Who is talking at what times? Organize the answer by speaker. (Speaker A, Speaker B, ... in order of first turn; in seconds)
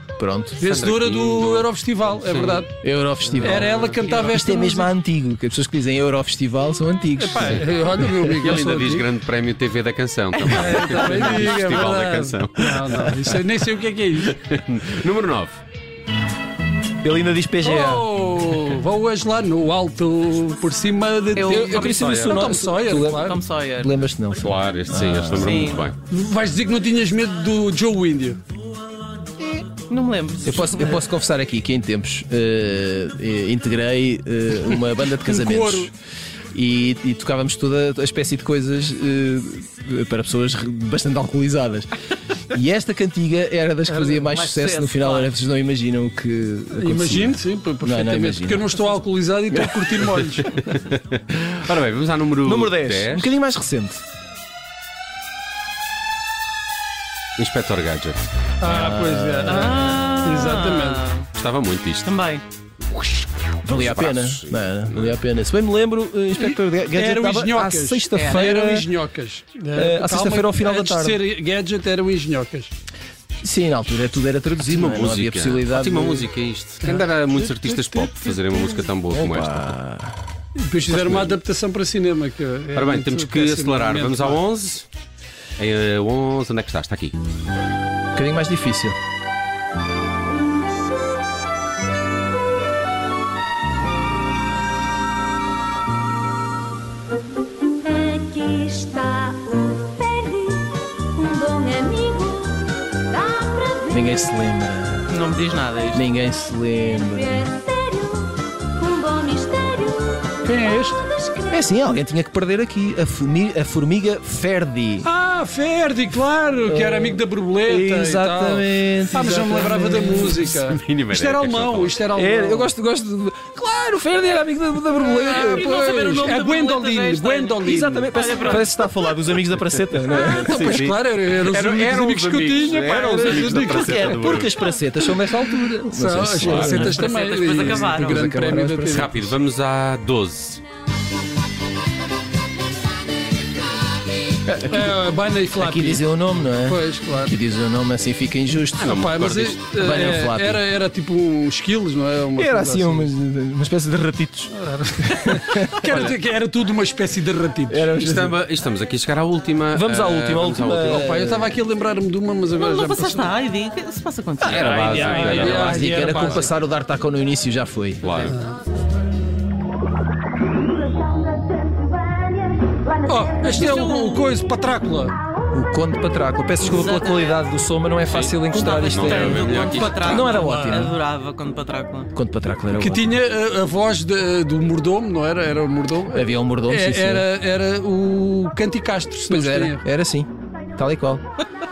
Speaker A: 0.2-0.7, 2.8-8.3, 17.0-18.1, 21.5-25.6, 30.4-35.9, 36.5-41.9, 42.5-48.7, 52.4-54.0, 63.6-68.9, 69.7-71.2, 73.4-76.3, 79.1-80.2, 88.2-89.0, 103.9-105.2, 105.9-107.5, 111.5-115.1, 116.7-120.6, 122.1-125.7, 127.6-130.9, 132.7-139.2, 144.5-144.9, 145.6-149.0, 149.8-150.6, 152.4-156.0, 157.7-158.4, 159.7-161.6, 164.4-168.3, 175.5-181.0, 182.1-183.2, 186.1-187.3, 189.3-191.2
Speaker B: 0.6-2.7, 3.4-4.9, 7.2-9.1, 10.5-14.4, 17.6-23.4, 26.1-28.4, 35.0-35.9, 46.8-50.5, 58.6-61.0, 66.4-72.7, 76.8-78.4, 80.6-84.4, 110.4-111.0, 115.0-122.7, 125.0-128.6, 130.1-134.1, 135.9-139.1, 144.7-147.3, 148.8-153.1, 154.5-157.9, 160.9-163.3, 164.9-166.5, 168.2-168.6, 173.1-175.2, 180.2-180.9, 182.7-189.8
Speaker C: 0.6-2.7, 7.3-7.7, 8.4-13.2, 14.3-15.6, 22.0-22.4, 24.4-26.0, 50.0-53.3, 57.4-58.2, 58.8-59.6, 61.4-62.1, 63.7-65.2, 74.6-79.8, 80.9-81.4, 82.8-84.9, 85.6-87.2, 120.7-122.0, 129.7-134.7, 136.4-136.9, 138.9-140.6, 148.8-150.0, 155.9-156.2, 157.9-161.1, 164.4-165.8, 168.0-168.4, 178.1-180.4
Speaker D: 21.4-22.0, 23.2-23.9, 25.4-25.9, 29.5-31.0, 43.9-45.3, 59.4-61.3, 62.0-62.4, 68.1-68.5, 105.1-106.1, 125.2-128.7, 136.6-138.3, 162.5-166.2, 173.4-174.3, 176.6-177.4, 178.5-182.1
Speaker E: 98.0-100.6, 101.2-102.6, 103.1-103.8, 107.5-110.1